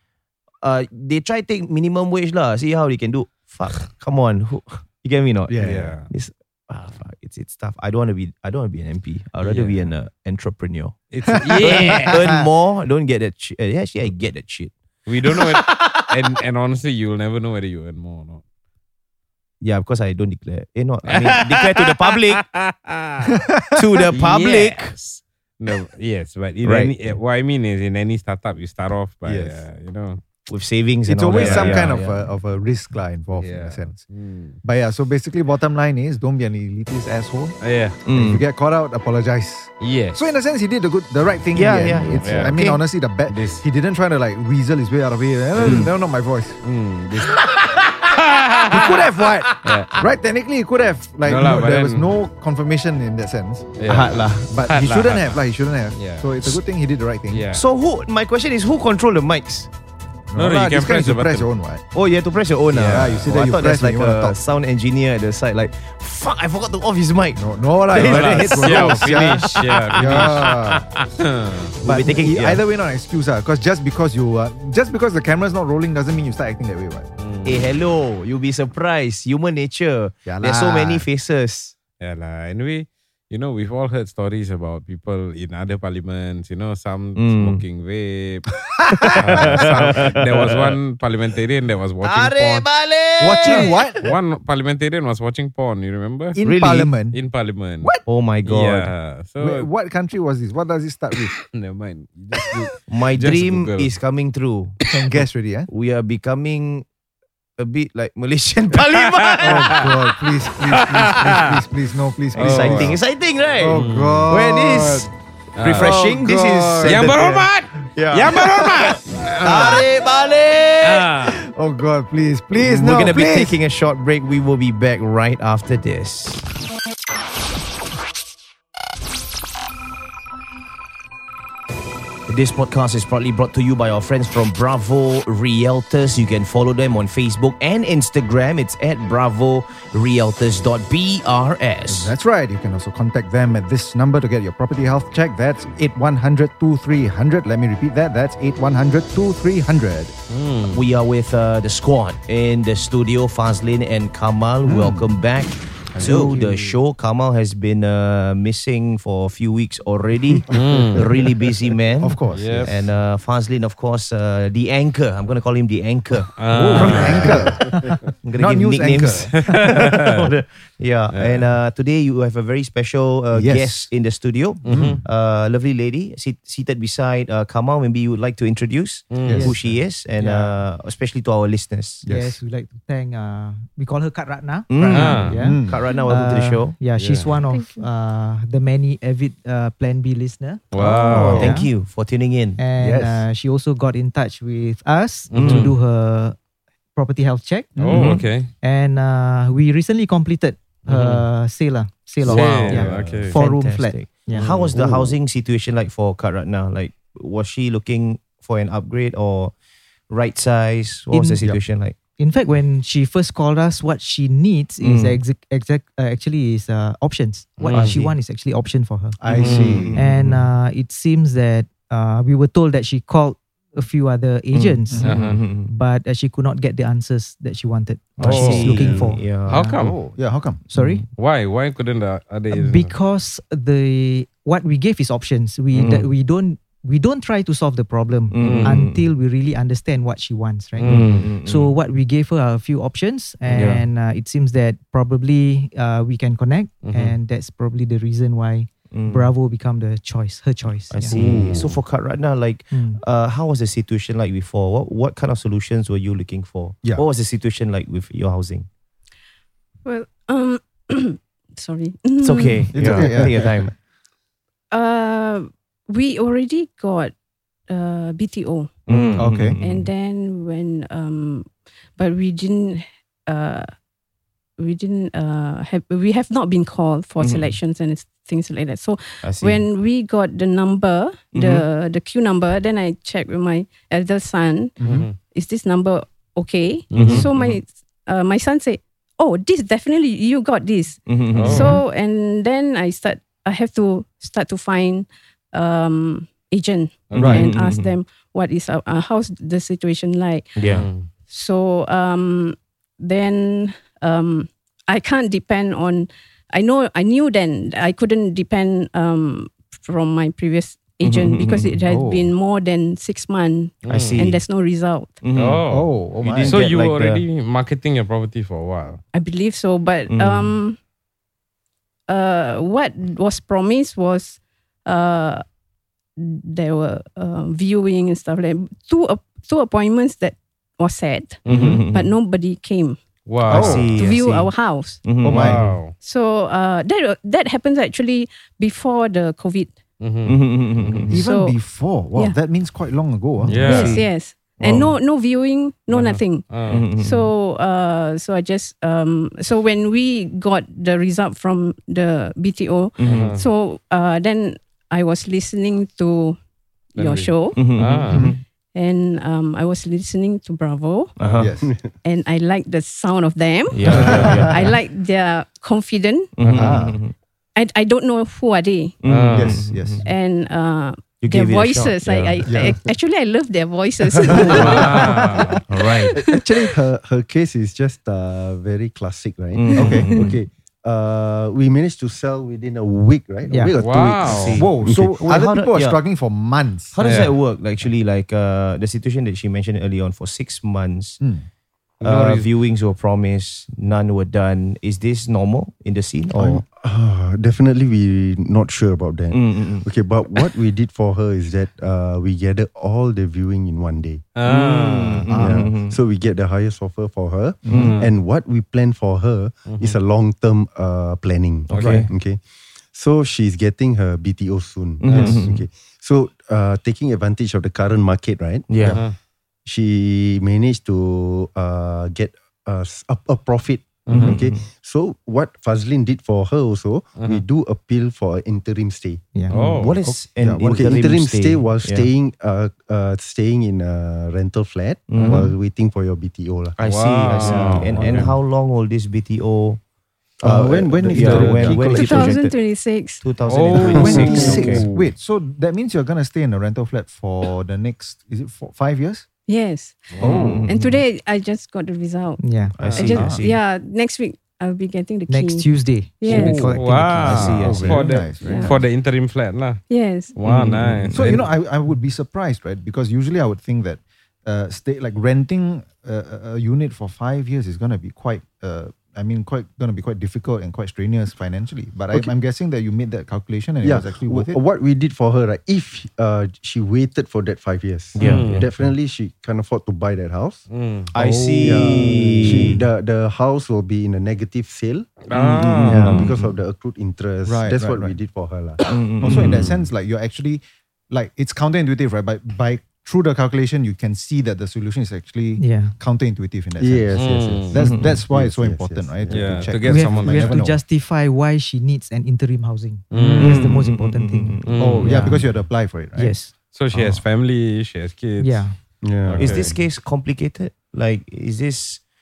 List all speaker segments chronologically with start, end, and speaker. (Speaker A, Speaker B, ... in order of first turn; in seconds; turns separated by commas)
Speaker A: 0.6-10.9, Speaker B: 5.5-5.9, Speaker C: 5.6-6.1, Speaker C: 9.4-9.9, Speaker C: 11.1-12.3, Speaker B: 11.3-12.3, Speaker A: 11.6-14.7, Speaker C: 15.1-18.4, Speaker A: 15.2-16.1, Speaker A: 19.6-22.4, Speaker C: 21.1-23.3, Speaker B: 23.3-23.8, Speaker A: 23.8-24.9, Speaker C: 24.1-30.2, Speaker A: 26.6-27.1, Speaker B: 29.2-29.6, Speaker A: 30.5-32.2, Speaker B: 31.0-34.0, Speaker C: 31.3-31.9, Speaker C: 33.4-34.6, Speaker B: 34.6-46.6, Speaker C: 37.6-38.0, Speaker A: 38.1-38.4, Speaker C: 39.8-40.3, Speaker A: 41.5-42.8, Speaker C: 42.1-42.5, Speaker C: 43.3-43.6, Speaker C: 45.5-45.9, Speaker A: 45.6-45.9, Speaker C: 46.6-50.1, Speaker B: 48.7-53.7, Speaker C: 51.2-52.1, Speaker C: 53.8-55.4, Speaker A: 53.9-54.5, Speaker B: 54.5-57.5, Speaker C: 55.9-56.3, Speaker C: 57.3-57.6, Speaker A: 57.5-59.7, Speaker B: 60.3-61.8, Speaker C: 60.3-61.5, Speaker A: 61.9-70.6, Speaker C: 62.7-63.3, Speaker B: 62.9-64.4, Speaker B: 67.3-70.8, Speaker C: 67.9-71.8, Speaker A: 71.8-72.6, Speaker B: 71.8-77.1, Speaker C: 77.2-77.6, Speaker A: 77.4-81.7, Speaker B: 80.2-81.1, Speaker C: 82.0-88.5, Speaker A: 87.2-87.6, Speaker B: 88.8-90.1, Speaker A: 88.9-90.8, Speaker C: 89.2-92.7, Speaker A: 92.0-93.9, Speaker B: 93.2-94.1, Speaker C: 93.4-96.4, Speaker B: 96.3-97.2, Speaker A: 96.4-96.9, Speaker C: 97.1-97.9, Speaker A: 98.0-98.9, Speaker C: 98.4-99.7, Speaker B: 99.4-101.3, Speaker C: 101.5-103.9, Speaker A: 102.9-104.8, Speaker B: 104.9-105.7, Speaker A: 105.7-106.9, Speaker A: 107.6-109.9, Speaker C: 108.7-110.1, Speaker B: 109.4-113.0, Speaker C: 110.7-111.5, Speaker A: 112.3-115.1, Speaker C: 112.3-113.0, Speaker B: 113.6-115.1, Speaker C: 113.7-119.9, Speaker A: 115.6-121.1, Speaker B: 115.7-116.0, Speaker B: 116.8-117.2, Speaker C: 120.8-121.4, Speaker B: 121.2-123.6, Speaker A: 122.6-126.5, Speaker A: 132.3-142.1, Speaker B: 141.9-150.1, Speaker C: 150.3-150.8, Speaker A: 150.7-167.4, Speaker B: 154.6-155.1, Speaker B: 155.9-156.5, Speaker D: 156.0-156.7, Speaker B: 160.3-161.2, Speaker C: 160.5-161.0, Speaker B: 162.0-162.7, Speaker C: 162.3-162.8, Speaker C: 166.3-167.4, Speaker B: 166.5-167.8, Speaker A: 168.2-182.0, Speaker B: 168.3-169.3, Speaker C: 169.0-170.3, Speaker C: 171.1-171.5, Speaker B: 173.3-173.9, Speaker C: 174.6-175.0, Speaker B: 174.7-175.0, Speaker C: 179.1-179.5, Speaker B: 179.2-179.7, Speaker D: 179.4-180.6, Speaker B: 182.0-182.4, Speaker D: 182.1-190.7, Speaker A: 184.7-186.7, Speaker B: 184.8-185.8, Speaker C: 184.9-185.4, Speaker C: 187.0-187.3, Speaker E: 187.5-187.8, Speaker C: 190.7-191.6, Speaker A: 190.7-192.6, Speaker B: 191.1-191.6, Speaker D: 191.3-191.7, Speaker D: 192.6-196.3, Speaker B: 192.8-193.2, Speaker C: 195.3-195.7, Speaker A: 195.3-195.7, Speaker D: 196.9-197.8, Speaker B: 197.8-198.2, Speaker C: 197.8-198.5, Speaker A: 197.9-198.2, Speaker D: 198.4-204.5, Speaker C: 200.9-201.2, Speaker C: 202.2-203.4, Speaker A: 202.2-209.5, Speaker F: 202.9-203.3, Speaker C: 204.3-205.1, Speaker A: 210.1-211.9, Speaker D: 211.1-211.6, Speaker D: 212.2-219.2, Speaker A: 214.8-215.2, Speaker C: 217.7-217.9, Speaker A: 217.7-218.1, Speaker B: 217.8-218.0, Speaker B: 219.2-220.0, Speaker A: 219.3-220.5, Speaker C: 219.3-219.9, Speaker D: 219.9-229.8, Speaker A: 224.5-225.7, Speaker B: 224.9-225.2, Speaker C: 225.0-225.4, Speaker A: 228.2-229.6, Speaker B: 228.2-228.7, Speaker C: 228.2-230.0, Speaker B: 229.8-230.6, Speaker D: 230.7-231.0, Speaker A: 230.7-231.1, Speaker C: 231.2-232.9, Speaker D: 232.5-251.2, Speaker A: 235.7-236.1, Speaker A: 238.3-239.1, Speaker C: 238.4-238.7, Speaker C: 240.8-241.3, Speaker A: 240.8-241.7, Speaker A: 243.5-243.8, Speaker C: 246.8-247.2, Speaker A: 248.9-249.3, Speaker A: 250.9-258.7, Speaker C: 251.1-251.8, Speaker D: 252.7-253.0, Speaker E: 259.8-263.1, Speaker A: 262.2-263.7, Speaker B: 262.7-263.7, Speaker E: 264.7-267.1, Speaker E: 267.7-273.7, Speaker A: 268.9-269.9, Speaker B: 269.1-269.6, Speaker E: 274.6-300.8, Speaker A: 277.2-277.6, Speaker A: 279.2-279.6, Speaker A: 281.3-281.6, Speaker B: 284.8-285.1, Speaker C: 284.8-285.1, Speaker C: 286.9-287.6, Speaker A: 286.9-287.3, Speaker A: 291.1-291.8, Speaker C: 291.3-291.8, Speaker C: 297.1-297.4, Speaker A: 297.1-297.9, Speaker B: 297.1-297.4, Speaker A: 300.6-300.9, Speaker C: 300.7-301.1, Speaker E: 301.3-315.2, Speaker A: 311.0-311.8, Speaker B: 311.8-312.3, Speaker C: 313.8-314.2, Speaker A: 313.9-314.4, Speaker A: 315.2-315.6, Speaker C: 315.3-315.9, Speaker B: 315.7-316.6, Speaker A: 316.2-317.2, Speaker C: 316.5-319.0, Speaker E: 319.1-320.8, Speaker A: 320.1-320.6, Speaker E: 322.1-325.4, Speaker E: 326.2-333.0, Speaker C: 331.4-331.8, Speaker A: 331.5-332.1, Speaker C: 333.2-333.9, Speaker A: 333.5-335.8, Speaker B: 333.5-334.0, Speaker E: 333.5-335.0, Speaker B: 335.2-335.7, Speaker C: 335.2-335.9, Speaker E: 336.0-339.8, Speaker C: 340.0-341.2, Speaker A: 340.2-341.2, Speaker E: 341.1-341.6, Speaker B: 341.1-343.8, Speaker A: 343.4-344.1, Speaker C: 343.5-344.0, Speaker E: 343.5-356.4, Speaker B: 344.6-344.9, Speaker C: 345.9-346.9, Speaker A: 346.7-347.3, Speaker A: 353.0-353.3, Speaker C: 353.0-353.4, Speaker E: 356.9-357.8, Speaker C: 356.9-358.3, Speaker A: 357.5-358.4, Speaker B: 358.1-358.3, Speaker E: 358.7-361.1, Speaker A: 361.2-361.5, Speaker B: 361.4-361.7, Speaker F: 361.6-361.9, Speaker E: 362.0-366.3, Speaker A: 363.7-364.8, Speaker B: 363.9-364.5, Speaker C: 363.9-364.3, Speaker A: 366.4-367.1, Speaker C: 366.4-366.8, Speaker B: 366.5-367.0, Speaker E: 367.6-368.9, Speaker A: 369.0-370.1, Speaker C: 369.0-369.7, Speaker B: 369.3-370.1, Speaker E: 370.0-376.7, Speaker A: 371.2-372.8, Speaker B: 372.4-372.8, Speaker A: 374.1-375.1, Speaker C: 374.5-375.6, Speaker B: 374.5-375.5, Speaker A: 375.7-376.1, Speaker F: 376.2-385.2, Speaker A: 379.5-380.4, Speaker E: 379.7-380.3, Speaker B: 379.8-380.1, Speaker D: 383.5-383.7, Speaker B: 383.7-387.0, Speaker C: 383.8-384.6, Speaker A: 384.2-386.0, Speaker A: 386.9-391.2, Speaker C: 387.0-387.4, Speaker B: 391.2-391.4, Speaker C: 392.0-392.5, Speaker A: 392.0-396.6, Speaker F: 396.3-404.3, Speaker A: 399.3-400.5, Speaker C: 404.3-405.3, Speaker A: 404.4-406.0, Speaker B: 405.3-405.7, Speaker F: 405.3-412.4, Speaker B: 407.6-408.0, Speaker A: 407.7-408.0, Speaker C: 407.7-408.1, Speaker C: 409.7-410.0, Speaker A: 411.7-412.1, Speaker C: 411.7-412.0, Speaker B: 411.8-412.1, Speaker F: 412.9-419.1, Speaker A: 415.0-415.6, Speaker B: 415.1-415.6, Speaker C: 415.1-415.4, Speaker A: 418.7-419.0, Speaker C: 418.8-419.1, Speaker F: 419.6-429.3, Speaker C: 424.1-424.4, Speaker A: 424.1-424.7, Speaker C: 427.2-427.4, Speaker A: 429.5-432.1, Speaker C: 429.5-430.0, Speaker B: 430.4-431.0, Speaker F: 430.6-436.8, Speaker A: 435.1-435.5, Speaker B: 435.2-435.5, Speaker A: 436.8-439.8, Speaker C: 436.8-438.3, Speaker F: 437.4-438.4, Speaker B: 437.5-438.1, Speaker F: 440.4-442.3, Speaker A: 440.4-442.6, Speaker B: 440.4-442.2, Speaker E: 441.8-443.2, Speaker A: 443.2-444.9, Speaker C: 443.5-444.9, Speaker F: 444.0-444.8, Speaker B: 444.0-449.3, Speaker E: 449.5-456.7, Speaker C: 450.1-450.6, Speaker B: 450.2-450.6, Speaker A: 450.2-451.0, Speaker D: 452.4-452.7, Speaker A: 452.7-453.6, Speaker B: 453.0-453.4, Speaker D: 455.3-457.8, Speaker B: 456.2-458.8, Speaker C: 456.5-459.8, Speaker A: 456.8-458.8, Speaker E: 458.3-458.8, Speaker E: 459.9-460.4, Speaker C: 460.4-461.4, Speaker A: 460.4-461.4, Speaker B: 461.1-474.6, Speaker F: 473.8-480.7, Speaker A: 478.1-478.7, Speaker C: 478.2-478.7, Speaker C: 480.7-481.1, Speaker B: 481.1-482.8, Speaker A: 481.1-482.8, Speaker F: 481.6-485.2, Speaker C: 485.2-486.3, Speaker A: 485.3-486.4, Speaker B: 485.8-486.5, Speaker F: 485.8-489.6, Speaker B: 487.4-488.1, Speaker A: 488.8-489.7, Speaker B: 489.2-500.8, Speaker D: 495.6-495.9, Speaker F: 496.8-500.4, Speaker C: 497.1-497.7, Speaker A: 497.7-498.2, Speaker C: 499.3-500.6, Speaker D: 499.9-505.5, Speaker C: 503.1-503.7, Speaker B: 503.1-503.6, Speaker A: 503.4-505.1, Speaker C: 504.6-505.3, Speaker B: 504.8-506.4, Speaker D: 506.1-506.5, Speaker C: 506.7-509.8, Speaker B: 506.9-507.2, Speaker D: 508.4-508.8, Speaker F: 509.0-509.8, Speaker A: 509.4-512.0